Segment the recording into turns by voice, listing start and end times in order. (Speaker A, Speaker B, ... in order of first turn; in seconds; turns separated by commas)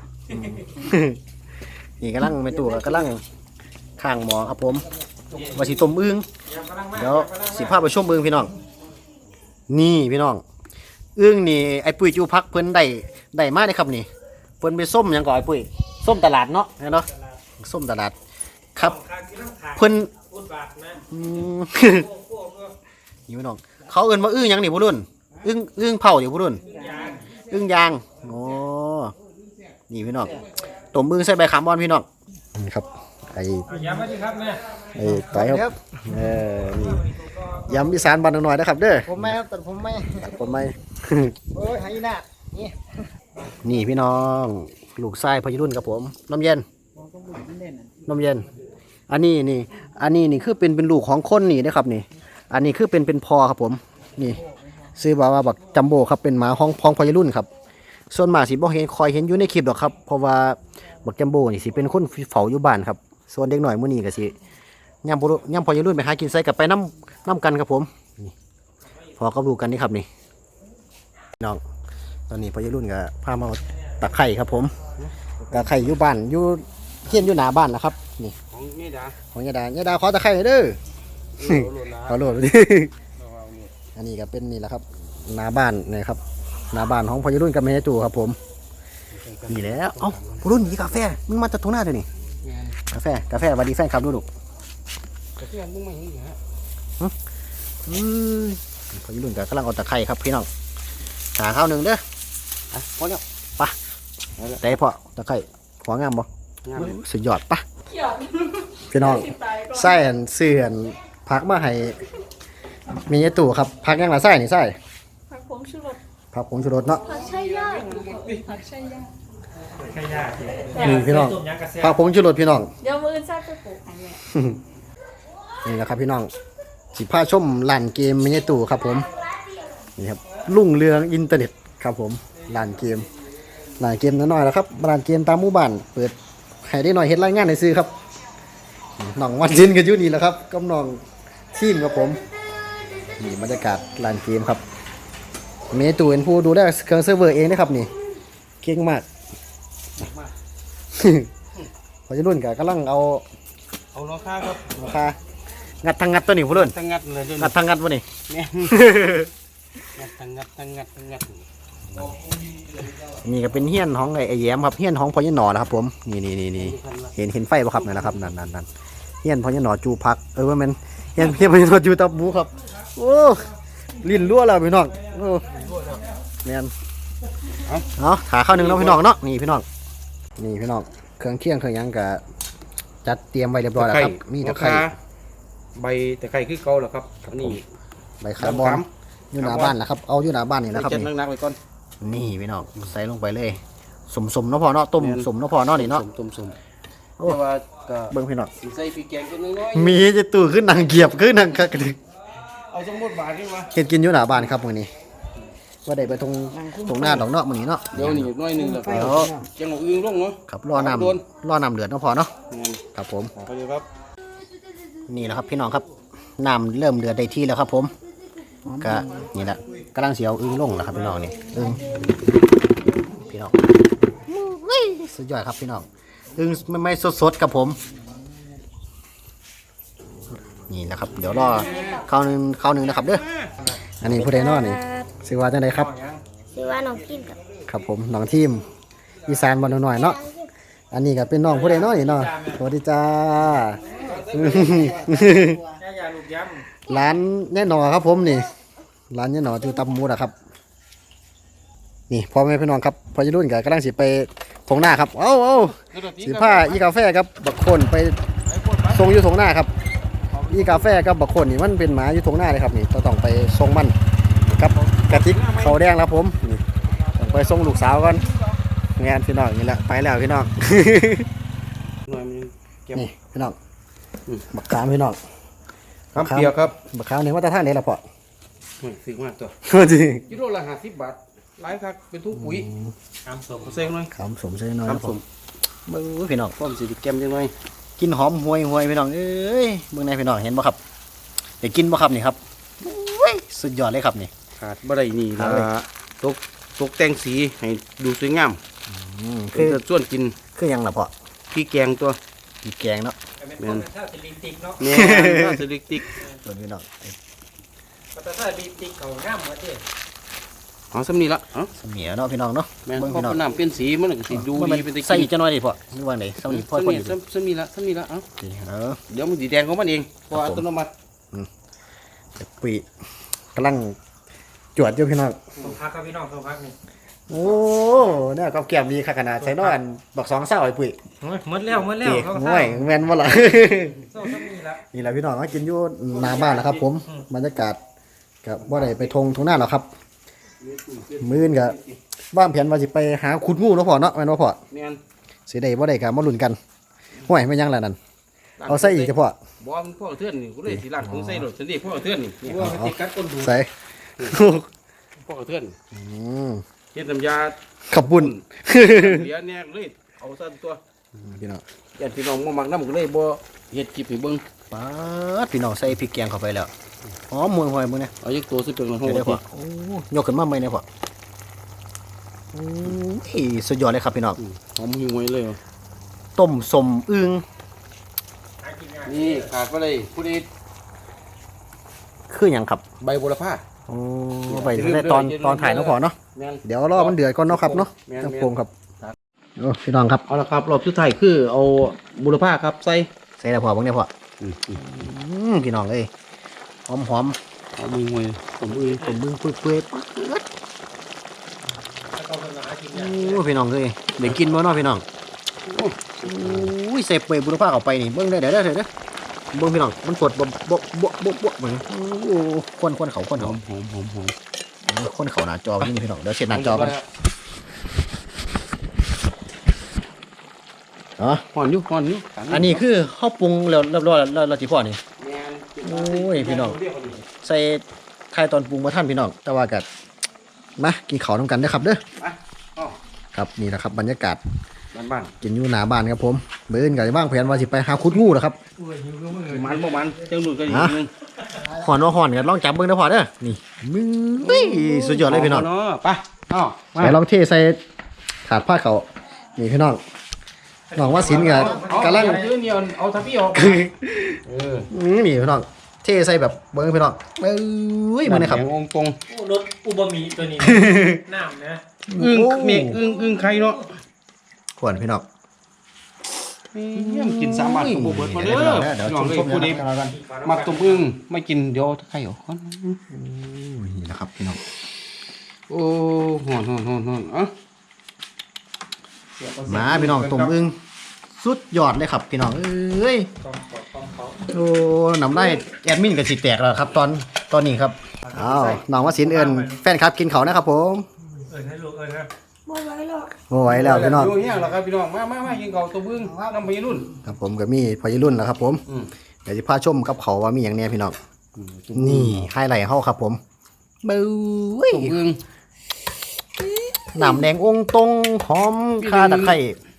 Speaker A: 0.3-1.2, Speaker A: 2.0-3.2, Speaker A: 4.0-4.9, Speaker B: 5.3-5.7, Speaker A: 5.5-6.2, Speaker B: 6.5-7.9, Speaker A: 6.9-8.5, Speaker A: 9.7-10.4, Speaker A: 11.2-14.1, Speaker A: 14.6-17.1, Speaker B: 17.1-17.4, Speaker A: 17.6-18.1, Speaker B: 18.8-21.0, Speaker A: 19.8-20.1, Speaker A: 21.1-22.1, Speaker B: 21.8-22.7, Speaker A: 23.3-26.6, Speaker B: 26.7-27.4, Speaker A: 27.5-29.1, Speaker A: 29.9-33.8, Speaker B: 33.7-34.8, Speaker A: 35.0-37.0, Speaker C: 35.4-35.7, Speaker B: 36.8-37.8, Speaker A: 37.7-39.4, Speaker C: 39.2-40.3, Speaker A: 40.2-41.5, Speaker C: 41.5-42.8, Speaker A: 43.6-46.6, Speaker C: 47.1-47.7, Speaker A: 48.1-48.5, Speaker A: 49.1-54.4, Speaker A: 55.0-57.5, Speaker A: 58.1-64.4, Speaker A: 65.0-68.3, Speaker A: 69.2-70.1, Speaker A: 72.3-74.7, Speaker D: 75.0-76.0, Speaker A: 75.5-78.3, Speaker D: 78.5-79.2, Speaker A: 79.3-80.8, Speaker D: 81.3-82.3, Speaker A: 81.4-82.9, Speaker D: 83.2-83.7, Speaker A: 84.0-86.2, Speaker A: 86.7-88.4, Speaker D: 89.1-90.5, Speaker A: 89.5-92.1, Speaker D: 92.4-92.8, Speaker A: 92.9-94.3, Speaker D: 95.4-96.4, Speaker A: 97.8-100.5, Speaker A: 101.3-102.0, Speaker D: 102.7-103.2, Speaker A: 104.6-107.7, Speaker D: 106.7-107.0, Speaker E: 107.9-110.0, Speaker A: 108.9-112.0, Speaker A: 113.1-114.8, Speaker E: 115.3-116.0, Speaker A: 116.3-117.0, Speaker E: 117.1-119.1, Speaker D: 117.1-118.5, Speaker B: 119.8-122.0, Speaker A: 120.8-122.7, Speaker E: 122.8-124.2, Speaker A: 124.3-124.6, Speaker A: 125.6-126.3, Speaker A: 126.9-129.1, Speaker A: 130.0-133.1, Speaker A: 133.8-137.9, Speaker A: 139.0-141.0, Speaker A: 141.5-142.2, Speaker A: 143.2-144.6, Speaker A: 145.7-147.9, Speaker A: 148.6-149.1, Speaker D: 150.0-150.3, Speaker A: 150.9-151.3, Speaker A: 152.1-153.2, Speaker D: 153.9-154.7, Speaker A: 154.7-155.2, Speaker A: 155.8-156.8, Speaker D: 156.5-157.5, Speaker A: 157.4-158.1, Speaker D: 158.3-158.7, Speaker A: 158.6-159.3, Speaker D: 160.0-161.4, Speaker A: 163.1-168.7, Speaker D: 166.6-167.1, Speaker D: 167.8-168.3, Speaker A: 169.2-175.5, Speaker D: 175.5-176.0, Speaker A: 176.4-176.7, Speaker A: 178.0-179.7, Speaker D: 178.5-179.0, Speaker A: 180.4-182.2, Speaker A: 183.1-184.9, Speaker D: 183.8-184.9, Speaker D: 185.8-187.6, Speaker A: 187.3-187.6, Speaker A: 188.2-191.1, Speaker D: 188.4-189.8, Speaker D: 190.7-191.6, Speaker A: 192.0-196.1, Speaker D: 195.0-196.6, Speaker D: 197.2-200.0, Speaker A: 198.1-198.5, Speaker A: 199.7-202.0, Speaker D: 202.7-203.7, Speaker A: 203.7-204.9, Speaker A: 205.9-208.3, Speaker D: 207.9-211.2, Speaker A: 208.8-209.4, Speaker A: 210.5-212.3, Speaker D: 212.5-212.8, Speaker A: 212.9-213.3, Speaker D: 213.3-213.9, Speaker A: 215.1-215.8, Speaker A: 216.4-217.9, Speaker A: 218.7-221.8, Speaker A: 223.3-223.5, Speaker A: 224.3-227.8, Speaker A: 230.7-233.2, Speaker D: 231.2-232.0, Speaker D: 232.9-233.5, Speaker A: 234.0-235.9, Speaker F: 234.1-235.1, Speaker B: 235.7-236.2, Speaker F: 236.6-237.3, Speaker A: 237.7-238.7, Speaker A: 239.3-240.2, Speaker F: 239.9-240.5, Speaker A: 240.9-245.7, Speaker B: 241.5-242.6, Speaker D: 243.9-245.1, Speaker B: 245.7-246.7, Speaker A: 246.9-248.5, Speaker A: 249.1-250.3, Speaker A: 252.1-258.2, Speaker D: 255.9-256.8, Speaker D: 258.4-259.2, Speaker A: 258.9-259.7, Speaker D: 260.3-260.9, Speaker A: 260.5-263.9, Speaker A: 264.5-268.2, Speaker D: 264.8-265.9, Speaker D: 267.2-268.3, Speaker A: 269.0-271.3, Speaker D: 272.1-273.1, Speaker A: 273.0-273.6, Speaker A: 274.5-275.2, Speaker D: 276.1-276.8, Speaker A: 276.2-278.0, Speaker D: 278.8-279.5, Speaker A: 279.6-280.2, Speaker D: 280.3-282.7, Speaker A: 282.4-282.9, Speaker B: 283.3-283.9, Speaker D: 283.6-284.1, Speaker A: 284.1-285.1, Speaker D: 284.9-285.2, Speaker A: 285.9-286.6, Speaker D: 286.6-287.5, Speaker A: 288.0-290.8, Speaker A: 291.6-294.3, Speaker D: 294.6-298.6, Speaker A: 295.4-295.7, Speaker A: 298.9-299.8, Speaker D: 299.5-300.4, Speaker A: 300.6-301.1, Speaker D: 301.5-302.2, Speaker A: 302.6-303.1, Speaker B: 303.4-304.9, Speaker D: 303.6-303.9, Speaker D: 304.8-306.1, Speaker A: 304.9-305.6, Speaker B: 306.1-306.4, Speaker A: 306.4-307.2, Speaker B: 308.1-309.8, Speaker D: 310.9-311.7, Speaker A: 311.8-313.4, Speaker D: 312.9-315.3, Speaker A: 314.3-317.2, Speaker D: 316.4-318.2, Speaker A: 318.4-319.0, Speaker D: 319.1-320.9, Speaker A: 320.3-320.6, Speaker A: 322.4-322.9, Speaker A: 323.6-324.0, Speaker A: 324.8-325.4, Speaker B: 325.6-326.8, Speaker A: 327.3-331.0, Speaker B: 329.4-329.8, Speaker B: 331.2-332.9, Speaker A: 332.0-334.1, Speaker B: 334.1-334.8, Speaker A: 334.9-337.8, Speaker D: 336.1-336.8, Speaker A: 338.4-339.9, Speaker D: 338.6-339.1, Speaker D: 340.6-342.0, Speaker A: 341.2-341.8, Speaker A: 342.3-344.6, Speaker D: 344.7-345.0, Speaker A: 345.5-346.6, Speaker A: 347.3-348.0, Speaker D: 348.6-353.6, Speaker A: 348.7-349.4, Speaker A: 350.7-351.5, Speaker A: 352.6-353.7, Speaker A: 354.2-354.7, Speaker D: 355.2-355.8, Speaker A: 355.9-356.6, Speaker D: 356.9-357.6, Speaker A: 357.9-359.3, Speaker D: 358.1-360.8, Speaker A: 361.2-361.6, Speaker D: 362.0-364.4, Speaker A: 364.7-366.7, Speaker A: 367.3-368.1, Speaker D: 368.2-369.4, Speaker A: 369.0-370.8, Speaker A: 372.5-374.4, Speaker D: 374.4-375.6, Speaker A: 376.4-377.4, Speaker B: 378.6-379.6, Speaker D: 379.1-380.5, Speaker A: 382.3-382.8, Speaker D: 383.0-383.6, Speaker A: 383.9-388.7, Speaker D: 384.5-389.2, Speaker A: 389.6-390.2, Speaker D: 390.3-393.1, Speaker A: 393.4-394.1, Speaker D: 394.4-394.8, Speaker A: 394.8-396.1, Speaker A: 396.9-397.4, Speaker D: 397.8-399.0, Speaker B: 398.8-399.2, Speaker A: 399.0-400.4, Speaker B: 402.1-403.4, Speaker A: 402.9-405.0, Speaker D: 404.2-404.5, Speaker B: 404.6-404.8, Speaker D: 405.7-406.7, Speaker A: 406.2-408.9, Speaker A: 409.5-413.6, Speaker D: 413.4-414.4, Speaker A: 414.9-416.9, Speaker D: 416.5-417.0, Speaker A: 421.2-421.4, Speaker D: 421.5-422.8, Speaker A: 422.5-425.0, Speaker D: 425.2-427.2, Speaker A: 425.8-426.8, Speaker A: 427.3-429.9, Speaker A: 430.8-432.0, Speaker D: 432.2-433.0, Speaker A: 433.4-434.4, Speaker D: 434.9-435.3, Speaker A: 435.4-438.6, Speaker B: 438.8-440.1, Speaker D: 439.5-441.1, Speaker A: 440.7-441.0, Speaker A: 441.7-445.7, Speaker D: 444.4-447.2, Speaker A: 447.0-447.8, Speaker A: 448.5-450.0, Speaker B: 450.9-452.5, Speaker A: 451.0-452.4, Speaker D: 451.3-453.9, Speaker A: 453.5-454.4, Speaker D: 454.5-454.9, Speaker A: 454.9-458.6, Speaker D: 458.3-459.2, Speaker B: 459.3-461.8, Speaker A: 460.6-461.2, Speaker A: 462.1-463.0, Speaker D: 462.2-463.9, Speaker B: 462.9-463.8, Speaker A: 464.8-465.2, Speaker D: 466.7-469.8, Speaker A: 467.0-470.1, Speaker B: 470.0-471.1, Speaker D: 470.4-473.0, Speaker A: 473.1-474.6, Speaker D: 475.7-477.5, Speaker D: 479.4-480.5, Speaker A: 479.7-480.8, Speaker A: 481.4-483.3, Speaker B: 483.4-484.5, Speaker A: 484.5-491.1, Speaker B: 488.2-489.8, Speaker B: 491.5-492.3, Speaker F: 492.7-493.3, Speaker A: 493.5-494.4, Speaker D: 493.7-497.1, Speaker A: 497.2-498.8, Speaker A: 499.5-501.2, Speaker D: 501.6-502.5, Speaker A: 501.9-503.4, Speaker A: 504.0-505.1, Speaker D: 504.9-505.4, Speaker A: 507.1-509.8, Speaker D: 509.0-509.6